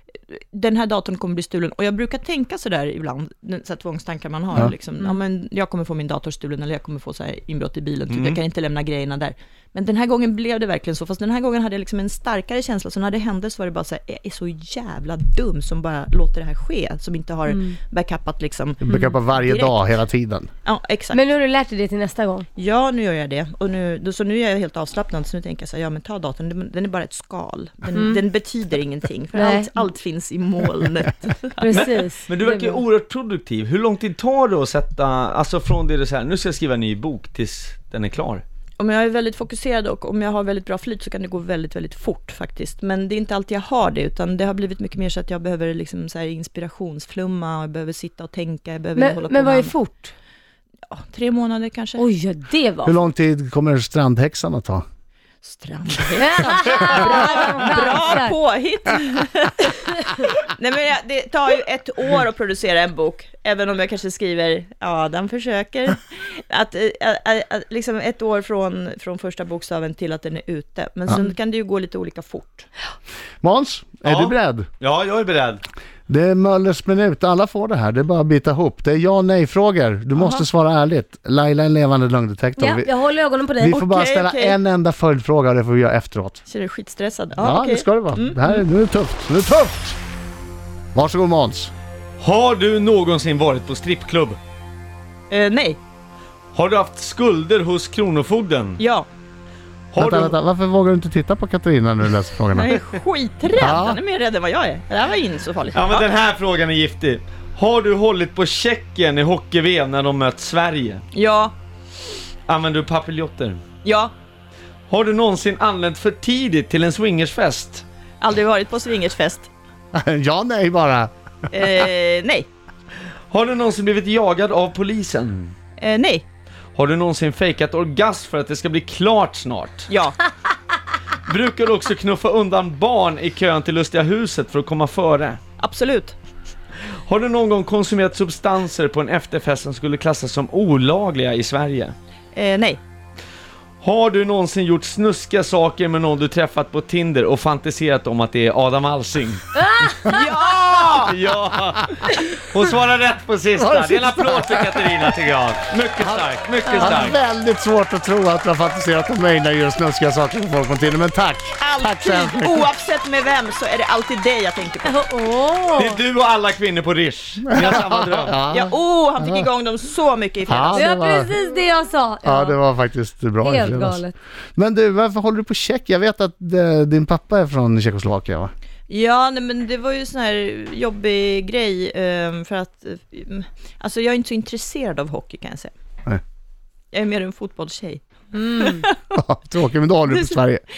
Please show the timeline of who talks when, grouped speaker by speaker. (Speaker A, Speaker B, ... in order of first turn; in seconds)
Speaker A: 0.3-20.0, 20.6-21.2, 22.6-31.7, 38.8-49.8, 50.9-52.1, 55.4-72.7, 80.2-80.5, 83.7-84.6, 86.5-88.6, 95.3-95.8, 98.8-99.1, 102.5-106.1, 111.1-111.5, 113.8-114.1, 118.2-119.5, 121.5-122.5, 125.8-126.2, 129.9-130.2, 135.6-136.2, 142.3-142.8, 150.1-151.1, 161.6-165.0, 168.5-170.9, 178.9-185.7, 186.9-189.2, 190.1-190.4
Speaker B: 8.1-8.4, 31.7-38.4, 74.0-75.6, 92.2-94.4, 96.5-98.8, 99.9-100.3, 105.7-111.0, 112.5-113.6, 114.9-117.8, 123.3-125.5, 126.8-129.9, 131.3-135.4, 137.1-141.9, 143.8-149.5, 151.0-157.2, 165.8-168.4
Speaker C: 17.5-17.8, 21.1-22.5, 27.9-28.2, 29.4-29.7, 31.6-32.8, 49.0-50.1, 52.0-53.0, 56.2-58.3, 82.6-83.8, 149.6-150.2, 164.9-166.0, 170.7-172.6, 173.4-174.1
Speaker D: 18.8-20.5, 52.9-54.8, 73.4-74.7, 76.1-82.9, 83.6-86.4, 87.4-90.0, 91.0-91.7, 100.0-102.8, 103.5-104.0, 119.9-121.1, 153.6-155.0, 156.0-156.3, 156.8-162.7, 167.5-169.5, 170.5-171.3, 172.2-174.0, 174.6-178.5, 189.2-190.6